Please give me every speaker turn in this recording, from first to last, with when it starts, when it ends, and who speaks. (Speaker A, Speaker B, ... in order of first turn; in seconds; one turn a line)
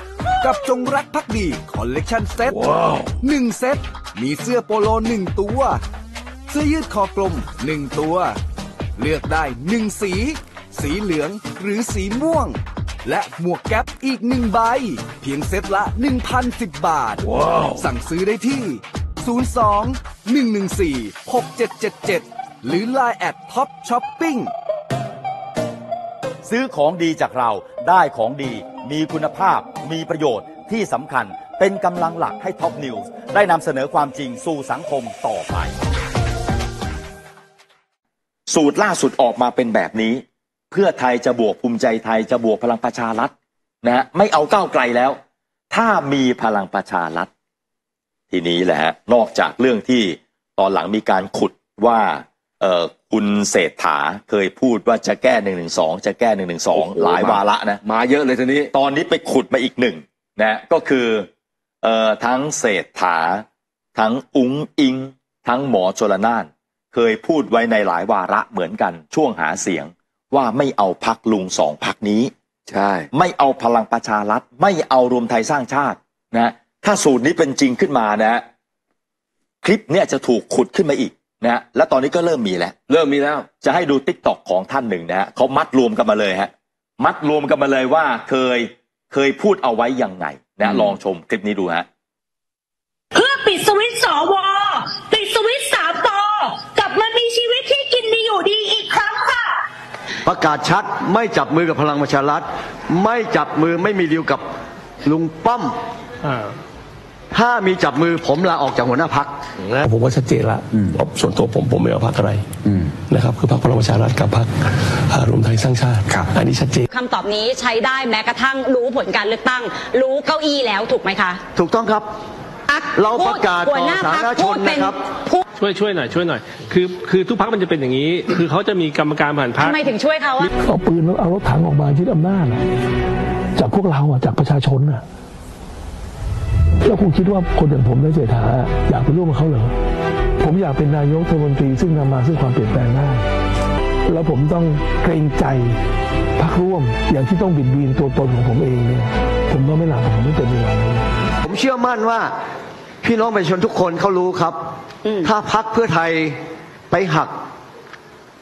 Speaker A: 0.4-5.8
Speaker A: 6.5-8.4
Speaker A: 9.0-24.5
Speaker B: 26.4-35.8
Speaker B: 38.5-43.3
Speaker B: 43.8-45.2
Speaker B: 45.7-47.3
Speaker B: 48.3-57.8
Speaker C: 56.7-58.7
Speaker B: 58.7-61.3
Speaker B: 61.8-72.3
Speaker C: 72.7-73.1
Speaker B: 73.1-78.4
Speaker B: 79.6-82.8
Speaker C: 82.9-83.5
Speaker B: 83.6-91.8
Speaker D: 93.1-99.6
Speaker E: 100.2-104.4
Speaker E: 105.0-105.7
Speaker E: 107.3-109.3
Speaker F: 109.6-112.5
Speaker F: 113.1-116.9
Speaker G: 116.9-121.4
Speaker E: 121.5-122.1
Speaker G: 122.7-125.4
Speaker E: 122.9-125.0
Speaker F: 125.7-129.7
Speaker G: 129.5-130.5
Speaker F: 130.6-132.6
Speaker F: 133.6-135.0
Speaker F: 136.8-139.7
Speaker F: 140.4-143.2
Speaker F: 144.1-145.8
Speaker F: 146.4-151.0
Speaker E: 151.4-152.3
Speaker E: 153.0-154.6
Speaker E: 155.2-156.4
Speaker E: 156.9-157.3